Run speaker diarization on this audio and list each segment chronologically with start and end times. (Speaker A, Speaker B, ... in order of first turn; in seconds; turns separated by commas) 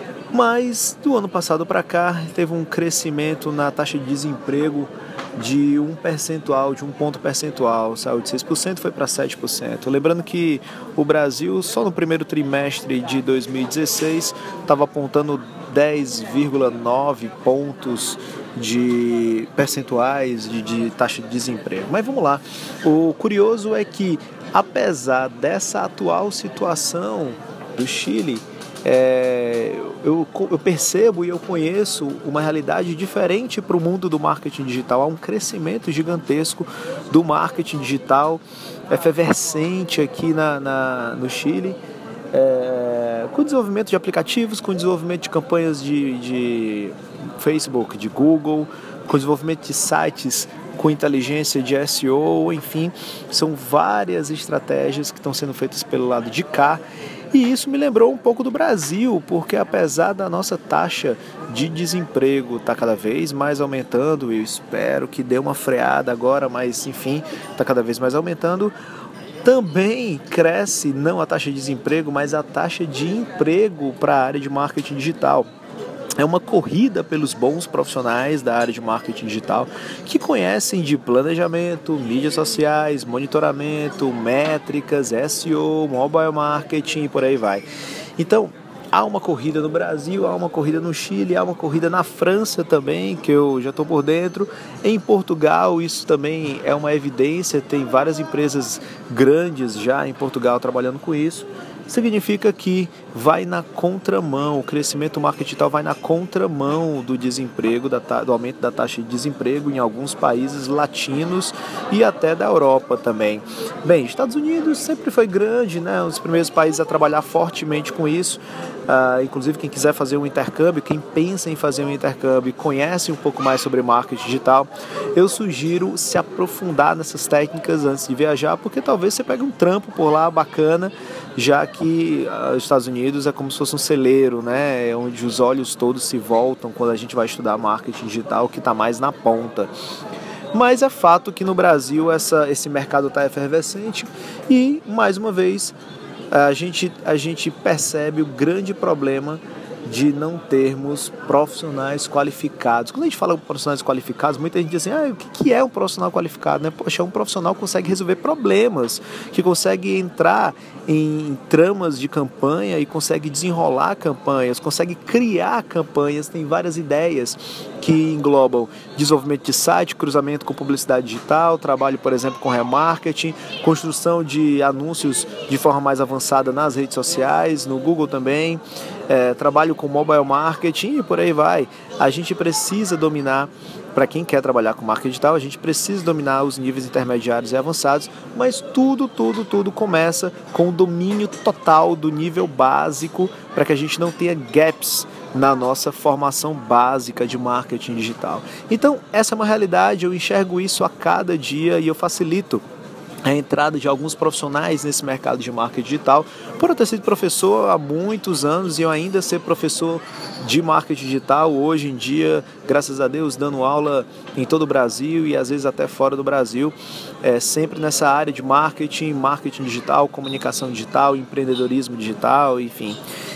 Speaker A: 0.3-41.8, Speaker A: 42.3-68.7, Speaker A: 69.4-75.5, Speaker A: 76.2-87.7, Speaker A: 88.2-139.7, Speaker A: 140.5-145.7, Speaker A: 146.3-202.6, Speaker A: 203.2-223.0